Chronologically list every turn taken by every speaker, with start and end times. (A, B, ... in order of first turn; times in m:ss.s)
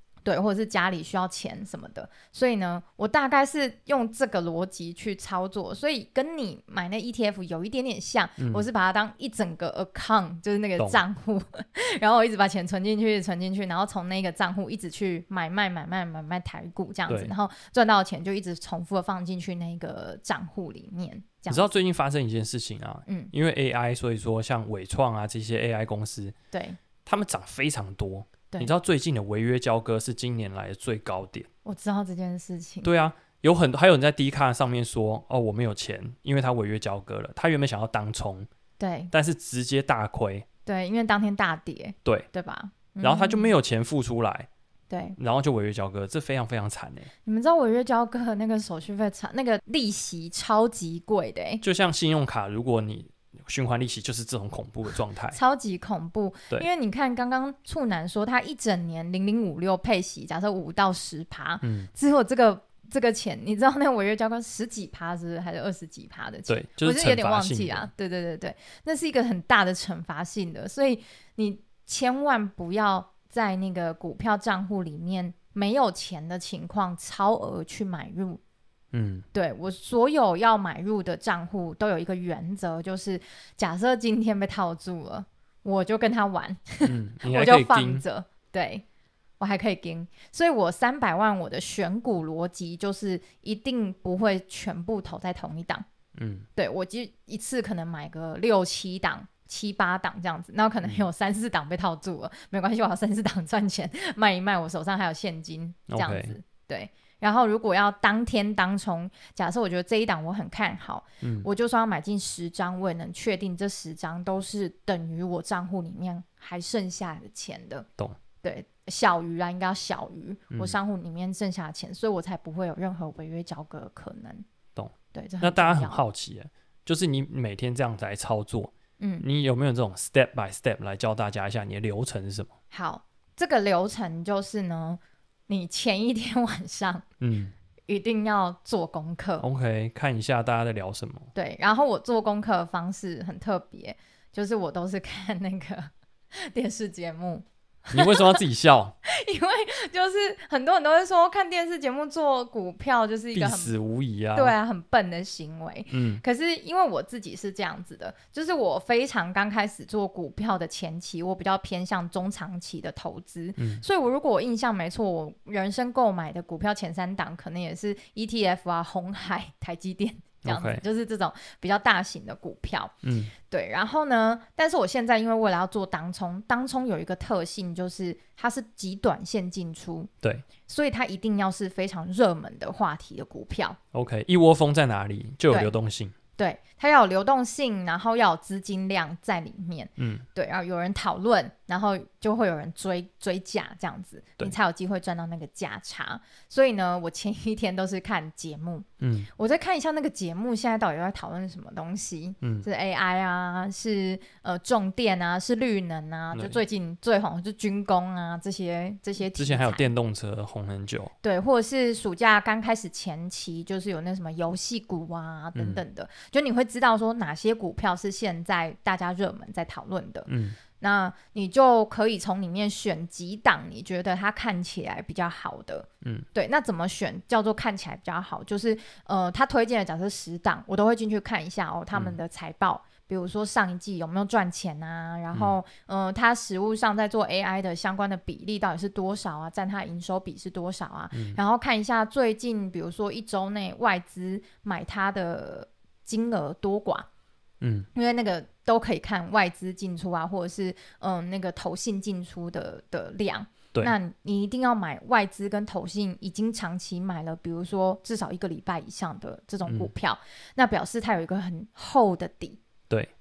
0:00.2-0:21.7 A
0:08.4-0:08.7 B
0:21.5-0:26.4 B
0:23.1-0:23.3 A
0:26.5-0:26.8 A
0:27.0-0:31.5 B
0:31.6-0:32.9 A
0:32.8-0:38.5 B
0:38.8-0:39.1 A
0:39.1-0:40.4 B
0:40.6-0:43.5 A
0:43.0-0:44.5 B
0:44.9-0:45.2 A
0:45.2-0:47.1 B
0:47.2-0:51.6 A
0:51.6-0:55.4 B
0:55.3-1:18.4 A
1:01.6-1:01.9 B
1:06.5-1:07.9 B
1:18.9-1:19.2 B
1:19.3-1:28.8 A
1:26.8-1:28.0 B
1:29.4-1:35.8 A
1:36.1-1:36.5 B
1:36.6-1:57.8 A
1:45.9-1:46.4 B
1:51.2-1:51.5 B
1:58.4-2:04.4 A
2:00.5-2:00.8 B
2:04.8-2:12.5 B
2:05.1-2:06.0 A
2:09.0-2:09.2 A
2:12.7-2:17.0 A
2:17.2-2:17.5 B
2:17.9-2:19.4 A
2:19.4-2:21.3 B
2:21.3-2:28.4 A
2:27.9-2:28.9 B
2:29.0-2:33.7 A
2:33.3-2:34.5 B
2:34.3-2:52.9 A
2:35.9-2:36.2 B
2:43.6-2:43.8 B
2:50.4-2:50.8 B
2:53.0-2:53.3 B
2:53.5-3:00.1 A
3:00.6-3:03.8 A
3:03.9-3:06.1 B
3:06.4-3:29.9 A
3:10.0-3:10.2 B
3:19.0-3:19.3 B
3:26.3-3:26.6 B
3:29.3-3:31.1 B
3:31.2-4:07.1 A
3:35.5-3:35.8 B
3:40.3-3:40.6 B
4:01.1-4:01.4 B
4:07.6-4:07.9 B
4:07.9-4:22.6 A
4:19.6-4:19.9 B